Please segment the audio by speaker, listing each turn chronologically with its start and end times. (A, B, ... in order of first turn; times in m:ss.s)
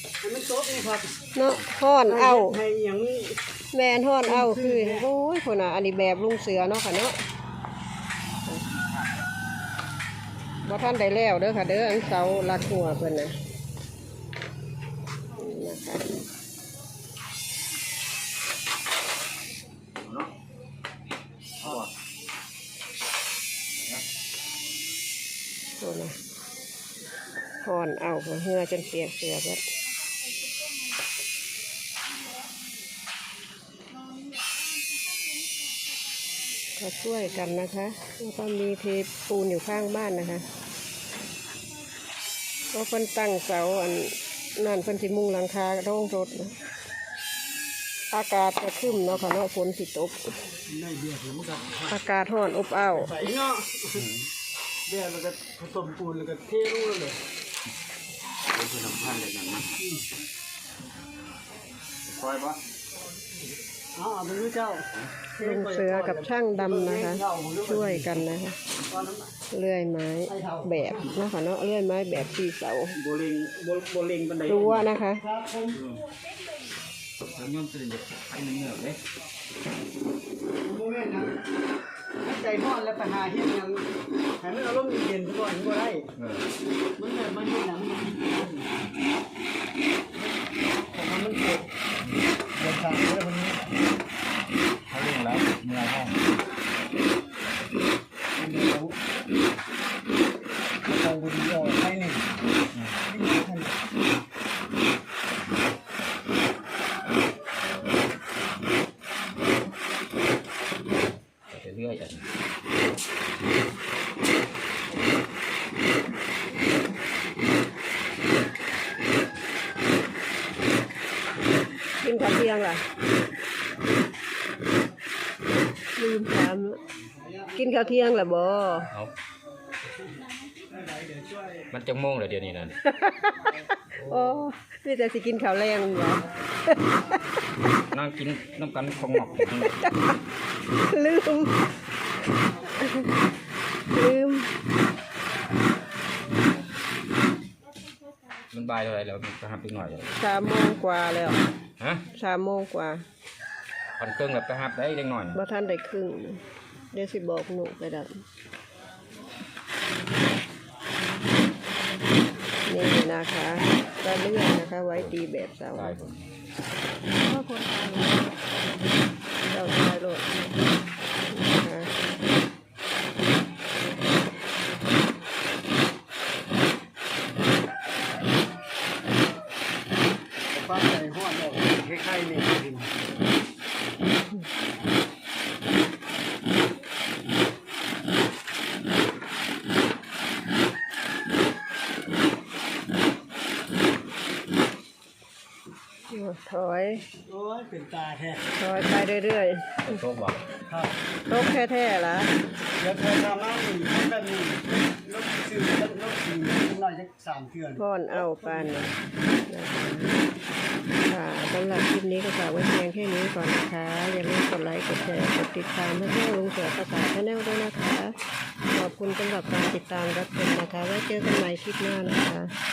0:00.2-0:01.2 A
0:01.4-0:02.6 B
0:01.6-0:01.9 C
0:02.1-0:03.4 A
0:03.7-0:07.2 B
0:04.2-0:05.1 A
0:10.6-0:13.4 B
0:15.3-0:16.1 B
0:20.0-0:20.3 C
0:21.6-0:21.9 C
0:25.8-0:26.2 B
0:27.6-0:29.6 B
0:36.8-0:40.4 B
0:42.7-0:46.6 B
0:48.1-0:50.4 B
0:50.7-0:52.0 A
0:51.9-0:53.3 B
0:52.9-0:54.1 A
0:54.0-0:54.3 C
0:54.9-0:57.2 A
0:58.5-0:59.7 C
0:59.8-1:00.0 A
1:02.1-1:02.6 C
1:04.0-1:08.1 A
1:05.4-1:08.6 B
1:08.9-1:09.3 A
1:09.5-1:13.0 B
1:10.3-1:11.1 A
1:13.0-1:14.9 C
1:14.5-1:15.2 B
1:15.2-1:15.8 A
1:15.8-1:16.0 C
1:17.2-1:19.0 C
1:20.6-1:21.3 A
1:22.2-1:23.9 A
1:24.4-1:26.1 A
1:26.2-1:26.5 C
1:27.0-1:28.7 A
1:30.9-1:31.7 A
1:32.6-1:33.6 A
1:34.9-1:36.2 C
1:38.4-1:39.0 A
1:40.9-1:42.2 A
1:43.1-1:43.8 A
1:51.5-1:52.2 C
2:02.0-2:02.8 B
2:06.0-2:06.8 B
2:07.5-2:08.9 B
2:10.7-2:11.7 A
2:11.7-2:12.8 C
2:12.8-2:17.2 B
2:14.0-2:14.4 A
2:17.9-2:19.8 C
2:19.4-2:20.0 B
2:20.8-2:21.7 B
2:22.7-2:23.1 B
2:23.9-2:24.5 B
2:28.5-2:30.2 C
2:30.2-2:31.4 B
2:31.8-2:32.1 C
2:32.1-2:33.0 B
2:34.0-2:35.4 C
2:35.3-2:38.2 B
2:42.7-2:46.0 B
2:45.7-2:46.3 C
2:47.2-2:48.4 B
2:49.5-2:50.3 B
2:51.3-2:51.9 B
3:00.5-3:02.9 A
3:16.1-3:17.0 B
3:17.3-3:18.4 A
3:18.6-3:20.0 B
3:19.8-3:20.4 C
3:20.7-3:21.0 A
3:21.3-3:22.3 B
3:22.8-3:28.9 A
3:27.8-3:29.0 B
3:29.5-3:30.2 B
3:31.1-3:38.2 B
3:38.7-3:42.5 B